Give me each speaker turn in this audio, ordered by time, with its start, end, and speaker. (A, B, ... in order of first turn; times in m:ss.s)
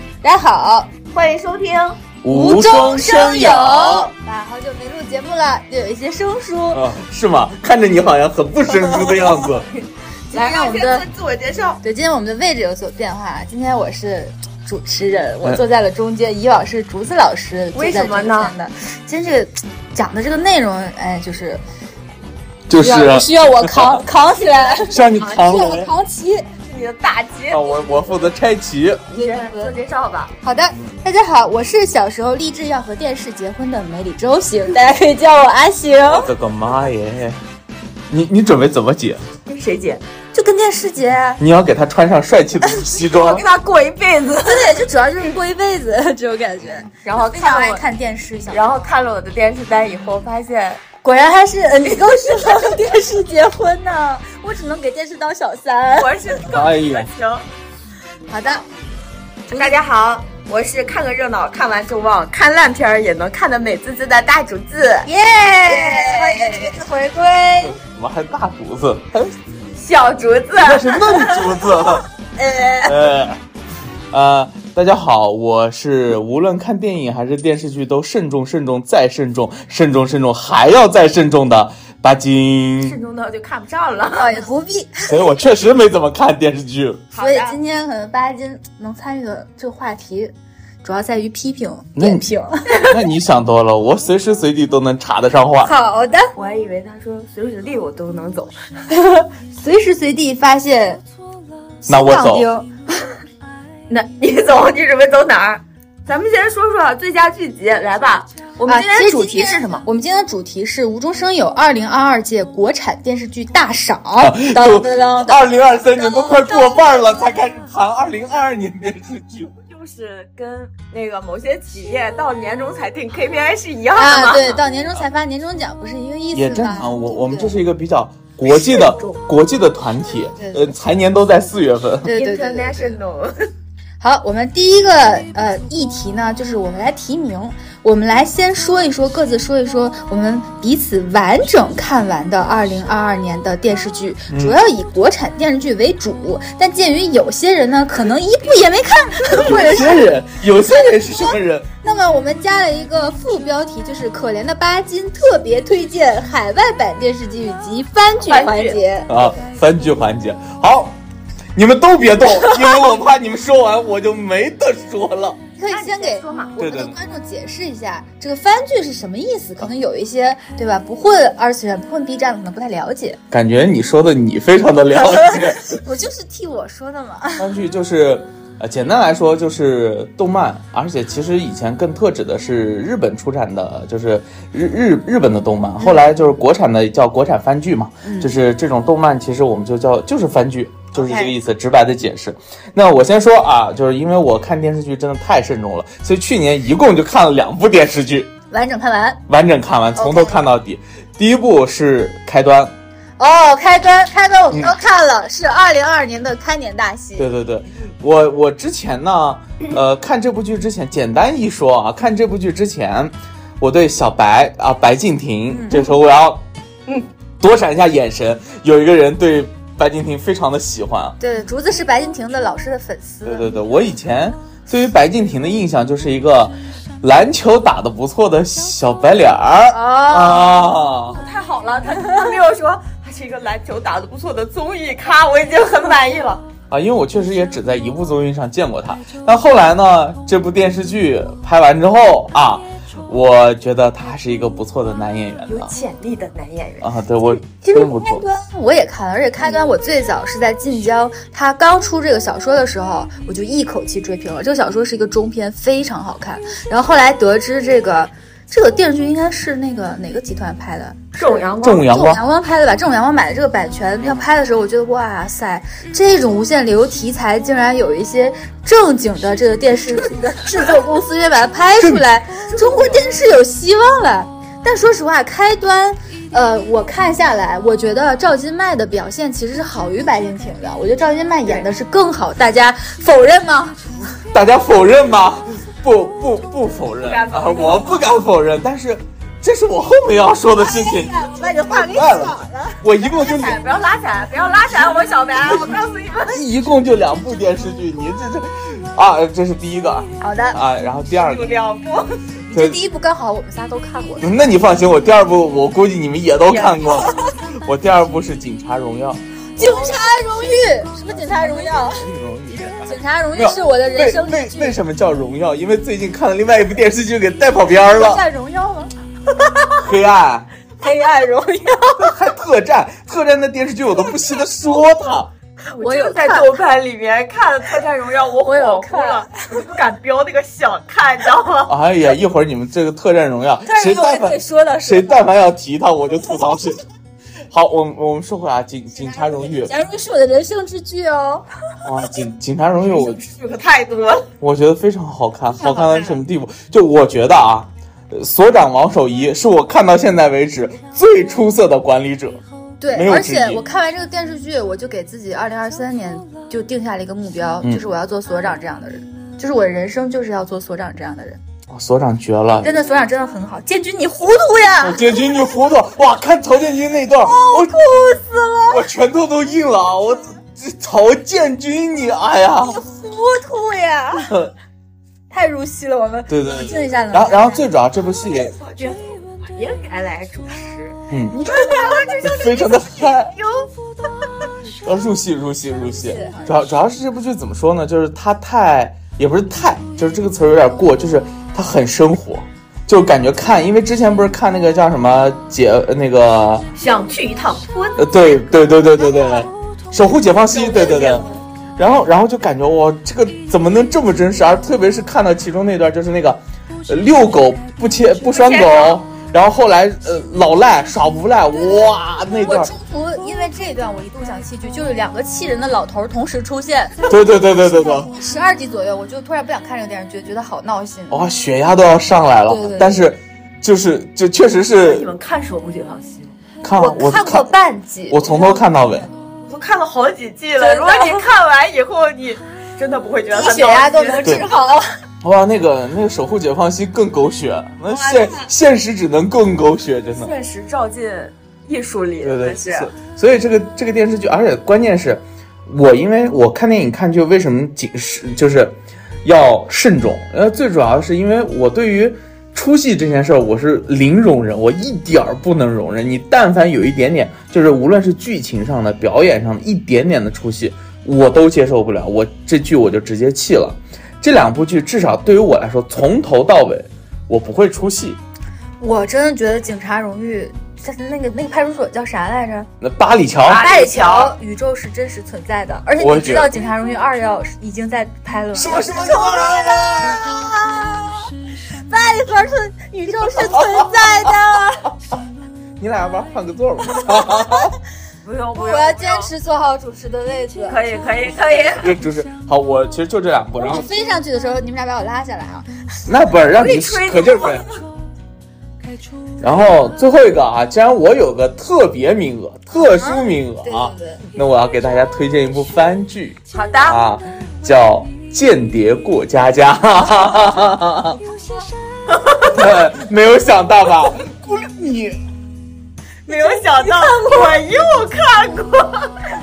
0:00.2-0:00.9 A
0:01.1-0:02.0 B
0:02.2-0:04.1 C
0:02.3-0:06.8 A
0:02.9-0:03.9 B
0:06.7-0:09.7 C
0:10.3-0:11.8 B
0:10.3-0:11.1 A
0:11.8-0:21.6 A
0:17.7-0:18.5 B
0:22.7-0:24.0 C
0:22.8-0:26.5 A
0:24.8-0:25.9 C
0:25.2-0:25.8 B
0:26.6-0:28.3 B
0:27.5-0:29.0 C
0:29.1-0:30.3 B
0:29.1-0:29.7 A
0:30.4-0:36.3 A
0:36.1-0:37.4 C
0:38.1-0:39.2 C
0:39.5-0:40.0 B
0:40.3-0:41.4 A
0:41.4-0:43.4 C
0:43.0-0:44.7 B
0:44.4-0:48.9 A
0:47.0-0:47.8 B
0:48.5-0:50.8 B
0:51.0-0:56.1 A
0:52.3-0:52.6 B
0:56.0-0:57.4 B
0:56.5-0:57.1 C
0:58.3-0:58.6 A
0:59.5-0:59.7 A
0:59.5-1:05.1 B
1:05.0-1:07.8 A
1:05.7-1:06.7 B
1:07.6-1:09.3 C
1:09.8-1:11.5 B
1:10.6-1:12.1 C
1:12.4-1:13.0 A
1:12.8-1:13.4 C
1:14.1-1:23.0 C
1:22.8-1:24.5 B
1:24.1-1:25.1 A
1:25.1-1:27.0 C
1:27.1-1:27.6 B
1:27.2-1:32.8 A
1:32.0-1:32.2 C
1:32.8-1:35.7 C
1:35.6-1:36.3 A
1:36.3-1:38.6 B
1:38.9-1:41.0 A
1:41.8-1:42.7 A
1:41.9-1:42.5 C
1:43.9-1:49.8 B
1:48.7-1:55.4 A
1:54.2-1:59.5 C
1:56.0-1:56.8 A
1:59.6-2:04.6 B
2:04.0-2:07.6 A
2:06.3-2:12.1 C
2:08.5-2:09.2 B
2:10.4-2:10.7 A
2:12.0-2:13.0 A
2:12.1-2:13.5 B
2:14.0-2:30.1 A
2:24.3-2:24.6 C
2:29.3-2:31.7 C
2:30.9-2:39.4 A
2:38.2-2:38.8 B
2:39.1-2:41.0 C
2:41.5-2:45.4 C
2:45.6-2:53.2 A
2:45.7-2:46.6 B
2:46.6-2:47.0 C
2:53.3-2:55.8 C
2:55.0-2:57.5 A
2:57.4-3:18.3 C
3:05.8-3:06.0 A
3:08.0-3:08.3 A
3:10.9-3:11.3 A
3:18.5-3:19.2 A
3:19.3-3:22.7 C
3:20.0-3:20.4 A
3:23.2-3:27.3 A
3:27.2-3:36.4 C
3:35.5-3:35.8 A
3:37.4-3:41.2 C
3:41.2-3:43.5 A
3:43.2-3:51.2 C
3:49.7-3:50.5 A
3:51.1-3:56.4 B
3:56.7-4:05.7 C
4:05.5-4:06.9 B
4:06.8-4:08.2 C
4:07.5-4:43.8 A
4:21.2-4:21.9 B
4:21.6-4:22.2 C
4:31.8-4:32.0 C
4:32.4-4:33.2 B
4:44.3-4:53.6 C
4:47.0-4:48.0 B
4:50.6-4:52.8 A
4:53.0-4:56.4 B
4:56.3-5:01.5 C
5:00.2-5:00.6 A
5:01.1-5:02.2 B
5:02.5-5:04.5 A
5:02.5-5:02.8 C
5:04.2-5:09.2 C
5:06.5-5:07.0 A
5:09.6-5:12.1 A
5:09.6-5:10.0 B
5:11.8-5:18.2 C
5:12.6-5:14.8 A
5:17.9-5:18.9 A
5:19.8-5:20.5 C
5:20.8-5:22.1 A
5:22.0-5:25.3 C
5:25.7-5:31.7 B
5:25.8-5:26.6 A
5:28.4-5:29.3 A
5:31.7-5:36.8 C
5:33.6-5:35.3 A
5:37.5-5:39.7 C
5:39.0-5:41.4 A
5:41.8-5:43.2 C
5:42.8-5:44.3 B
5:44.4-5:52.4 C
5:45.6-5:46.1 A
5:52.8-6:01.4 A
5:52.9-5:53.6 C
6:01.7-6:02.7 C
6:02.6-6:05.3 A
6:04.8-6:07.8 C
6:07.2-6:08.8 A
6:08.7-6:12.8 C
6:12.7-6:14.3 A
6:14.3-6:14.5 C
6:15.3-6:17.6 A
6:16.3-6:18.5 C
6:18.5-6:23.7 B
6:21.1-6:21.4 C
6:21.3-6:22.2 A
6:22.2-6:23.3 C
6:24.8-6:36.7 C
6:25.9-6:26.6 A
6:36.8-6:38.0 B
6:38.0-6:41.2 C
6:40.5-6:41.3 B
6:41.8-6:52.7 C
6:48.2-6:49.0 B
6:52.3-7:01.3 A
6:57.1-6:58.1 C
7:01.1-7:05.1 C
7:02.5-7:03.0 A
7:04.7-7:06.3 B
7:06.6-7:07.5 C
7:06.8-7:09.1 A
7:08.1-7:09.1 C
7:09.4-7:14.3 B
7:10.6-7:11.2 A
7:13.3-7:14.9 A
7:15.2-7:20.3 C
7:17.9-7:18.4 B
7:20.2-7:22.9 B
7:22.2-7:48.2 C
7:48.8-7:52.7 A
7:52.8-7:53.7 C
7:53.4-7:54.3 B
7:53.5-8:04.9 A
7:56.0-7:56.5 C
7:58.5-8:00.5 C
8:03.3-8:04.3 C
8:05.8-8:07.8 C
8:07.0-8:07.7 A
8:08.2-8:09.3 B
8:08.5-8:10.8 A
8:10.6-8:12.0 B
8:11.8-8:13.9 C
8:13.6-8:15.7 A
8:16.1-8:17.6 C
8:16.5-8:17.8 B
8:19.4-8:31.2 C
8:22.9-8:24.2 A
8:26.5-8:27.0 B
8:32.1-8:32.5 B
8:32.5-8:35.2 C
8:36.2-8:39.1 B
8:36.3-8:37.6 A